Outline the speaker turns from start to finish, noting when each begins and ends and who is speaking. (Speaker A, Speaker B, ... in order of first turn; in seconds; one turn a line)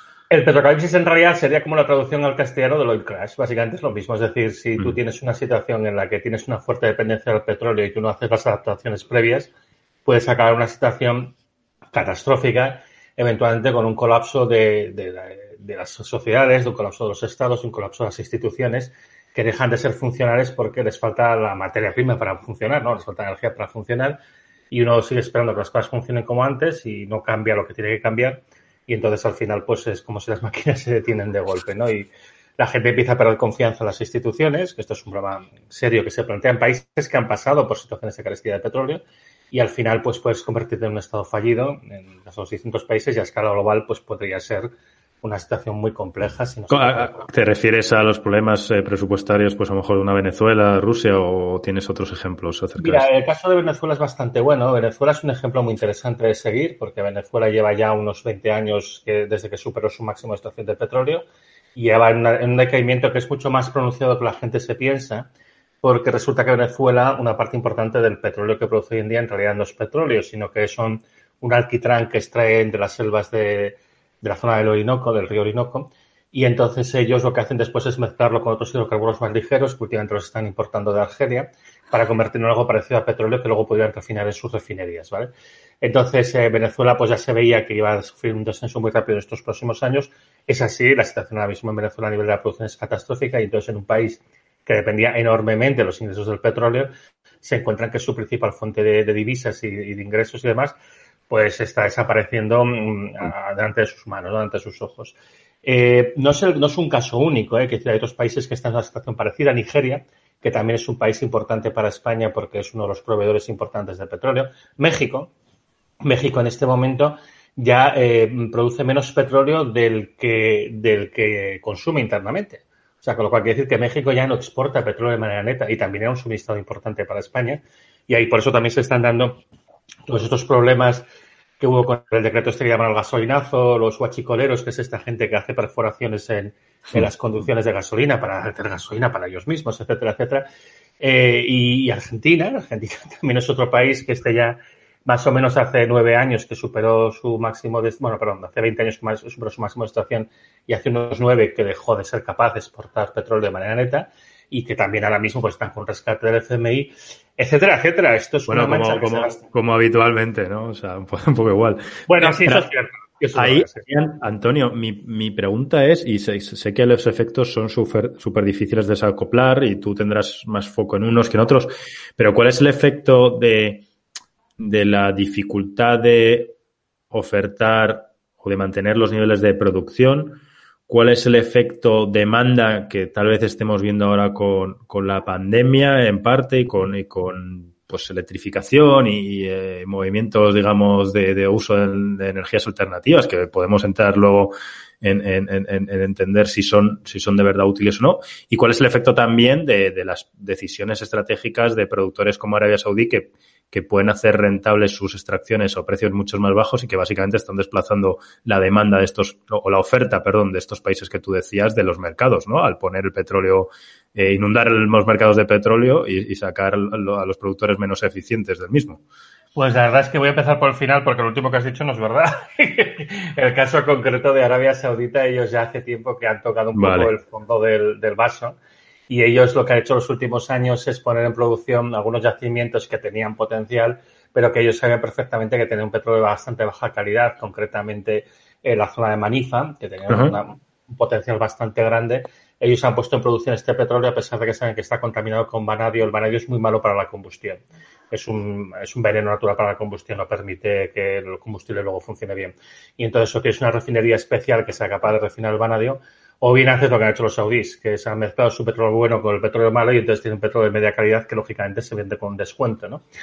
Speaker A: 0.3-9.5
Speaker A: 10.1-11.3
Speaker A: 11.9-24.2
Speaker A: 24.7-47.3
Speaker B: 46.7-53.1
Speaker A: 52.8-61.2
Speaker A: 61.8-65.3
Speaker A: 65.8-100.8
Speaker A: 101.3-115.3
Speaker A: 116.0-129.4
Speaker A: 130.1-131.1
Speaker A: 131.6-140.5
Speaker A: 141.0-159.4
Speaker B: 158.5-162.7
Speaker A: 162.1-163.9
Speaker B: 163.4-173.9
Speaker B: 174.6-176.6
Speaker B: 177.1-219.0
Speaker A: 219.6-228.6
Speaker B: 226.8-227.1
Speaker A: 229.1-263.0
Speaker B: 240.1-240.4